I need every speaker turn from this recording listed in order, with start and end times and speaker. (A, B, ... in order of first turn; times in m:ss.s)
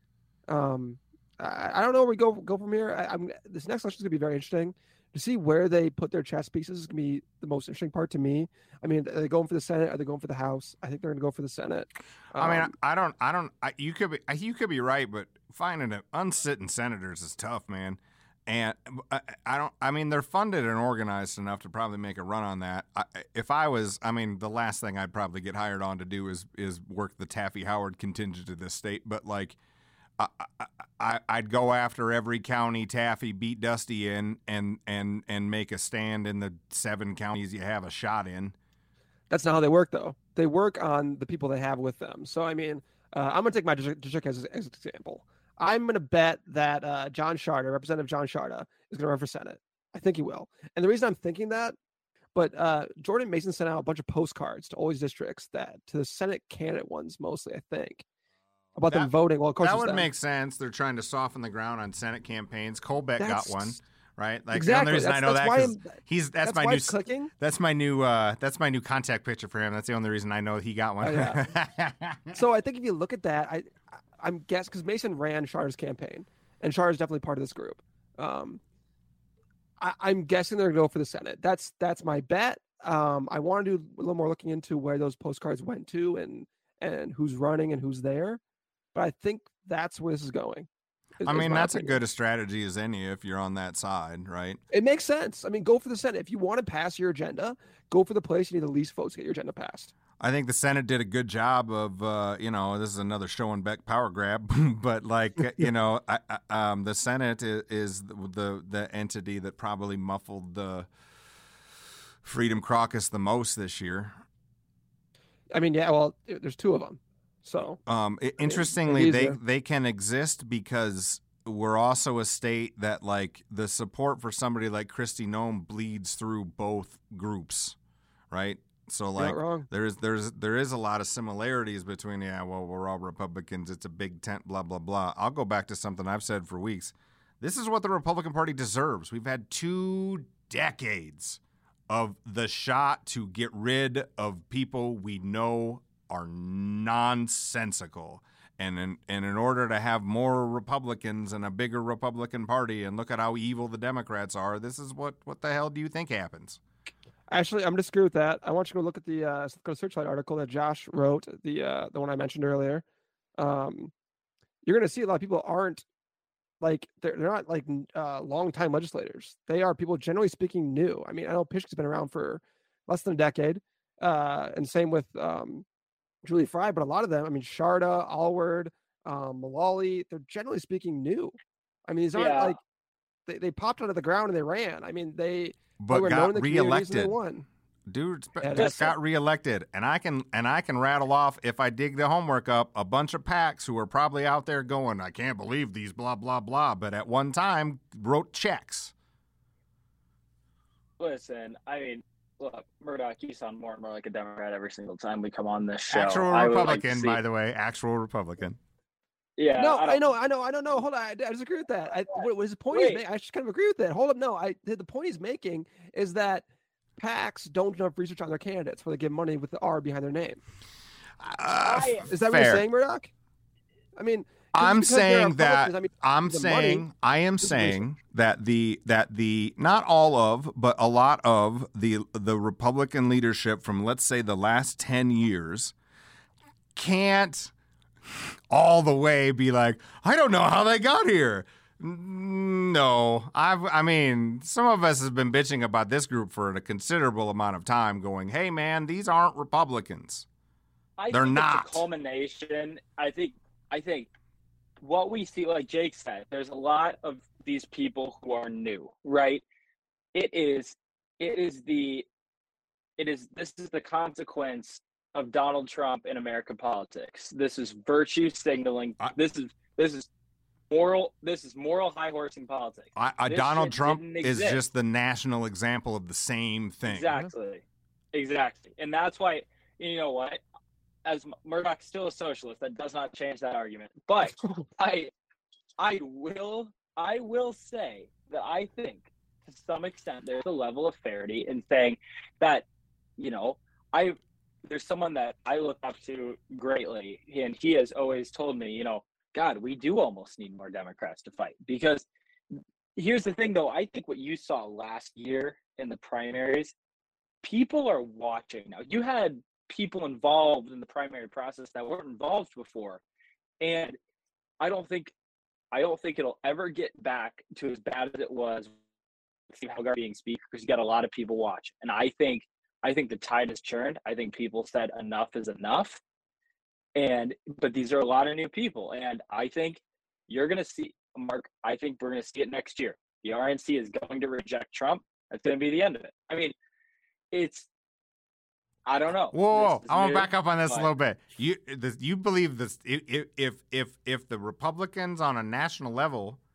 0:00.5-0:12.7 A
0:12.4-0:29.6 B
0:30.2-0:38.5 B
0:39.3-0:51.8 A
0:52.3-0:58.0 A
0:58.8-1:00.1 A
0:58.9-1:12.4 B
1:03.2-1:03.8 A
1:04.5-1:07.3 A
1:11.0-1:11.4 A
1:12.3-1:18.6 A
1:19.8-1:28.4 A
1:28.9-1:30.7 A
1:31.2-1:32.0 A
1:31.2-1:34.6 B
1:34.7-1:39.9 A
1:40.2-1:50.9 B
1:52.2-1:54.2 B
1:55.5-1:57.8 A
1:57.9-2:07.8 B
1:58.4-1:59.4 A
2:08.3-2:36.6 B
2:09.2-2:09.7 A
2:37.3-2:42.8 A
2:43.4-2:43.9 A
2:44.6-2:45.8 A
2:46.6-2:55.6 A
2:56.2-3:01.3 A
3:01.9-3:02.6 A
3:02.1-3:02.6 C
3:03.3-3:07.4 A
3:05.8-3:07.2 B
3:07.9-3:18.9 B
3:08.4-3:08.9 A
3:08.6-3:08.9 C
3:21.0-3:27.2 C
3:25.9-3:28.6 B
3:29.4-3:30.1 C
3:29.6-3:36.4 A
3:32.7-3:33.0 C
3:37.0-3:40.4 A
3:41.2-3:42.6 B
3:41.6-3:42.0 C
3:42.1-3:43.1 A
3:44.0-3:46.8 A
3:44.5-3:55.7 B
3:47.4-3:47.8 A
3:56.7-3:57.5 B
3:58.5-4:10.2 B
4:11.0-4:14.1 C
4:11.1-4:11.9 B
4:14.8-4:19.4 C
4:20.1-4:22.0 C
4:23.0-4:30.1 C
4:30.7-4:34.6 C
4:33.0-4:37.1 B
4:36.8-4:40.4 C
4:41.0-4:45.1 C
4:45.8-4:52.6 C
4:53.2-5:02.0 C
5:03.0-5:06.7 C
5:07.4-5:13.0 C
5:13.6-5:14.0 C
5:14.6-5:15.1 C
5:15.7-5:18.7 C
5:19.5-5:26.0 C
5:27.0-5:36.5 C
5:37.3-5:37.7 C
5:38.8-5:40.9 C
5:39.3-5:46.4 B